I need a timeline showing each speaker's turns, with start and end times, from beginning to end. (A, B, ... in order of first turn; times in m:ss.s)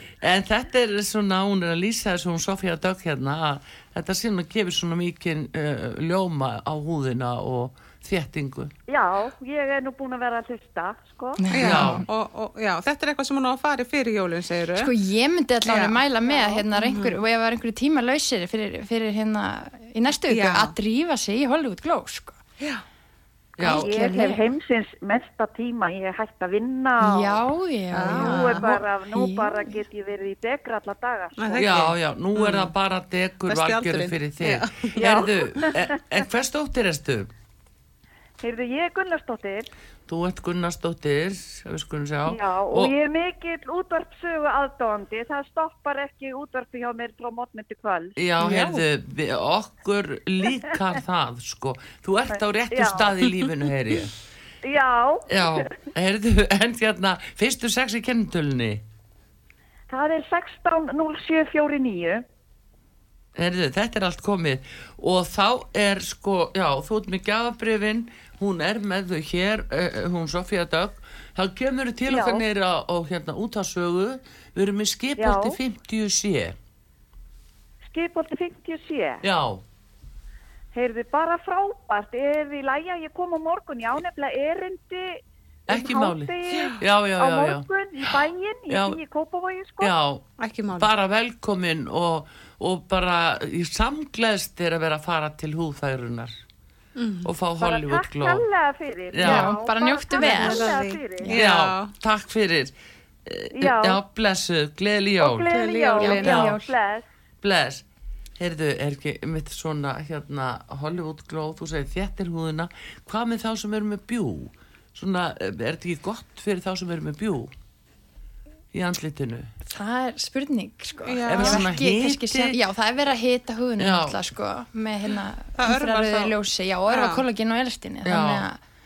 0:00.2-0:08.7 A
0:08.9-0:11.4 B
0:11.4-0:12.0 C
0:11.5-0:14.9 D
0:11.6-0:12.0 A
0:14.8-0:22.4 C
0:15.6-0:17.2 D
0:20.3-0:20.7 D
0:23.6-0:23.9 A
0:23.6-0:24.5 C
0:23.6-0:27.4 B
0:27.0-0:29.8 C
0:27.9-0:28.8 D
0:28.1-0:31.6 B
0:31.4-0:32.7 D
0:31.6-0:37.3 A
0:33.5-0:35.2 D
0:35.0-0:36.0 B
0:38.4-0:39.7 B
0:40.1-0:42.9 A
0:42.3-0:48.2 B
0:48.2-0:54.1 A
0:48.4-0:48.8 D
0:52.3-0:53.1 B
0:54.6-0:55.7 B
0:55.3-0:58.8 A
0:59.9-1:02.2 B
1:03.4-1:16.5 A
1:12.1-1:12.4 B
1:15.2-1:15.6 B
1:17.8-1:19.2 B
1:19.2-1:19.6 A
1:20.7-1:29.9 B
1:25.7-1:29.0 A
1:29.8-1:30.2 A
1:30.4-1:30.9 D
1:30.7-1:36.3 A
1:37.0-1:37.3 D
1:37.2-1:38.4 A
1:37.6-1:41.3 B
1:39.1-1:39.5 A
1:39.2-1:41.4 C
1:40.1-1:41.9 D
1:41.3-1:42.7 A
1:43.2-1:45.6 A
1:43.6-1:44.0 B
1:45.2-1:47.0 B
1:45.5-1:46.4 D
1:46.0-1:46.7 C
1:46.2-1:46.6 A
1:47.4-1:47.8 A
1:48.4-1:57.5 A
1:58.7-1:59.5 A
1:59.6-2:08.6 C
2:01.0-2:01.7 D
2:01.3-2:02.6 A
2:03.8-2:04.2 A
2:05.6-2:06.3 D
2:06.9-2:07.2 D
2:08.0-2:08.4 A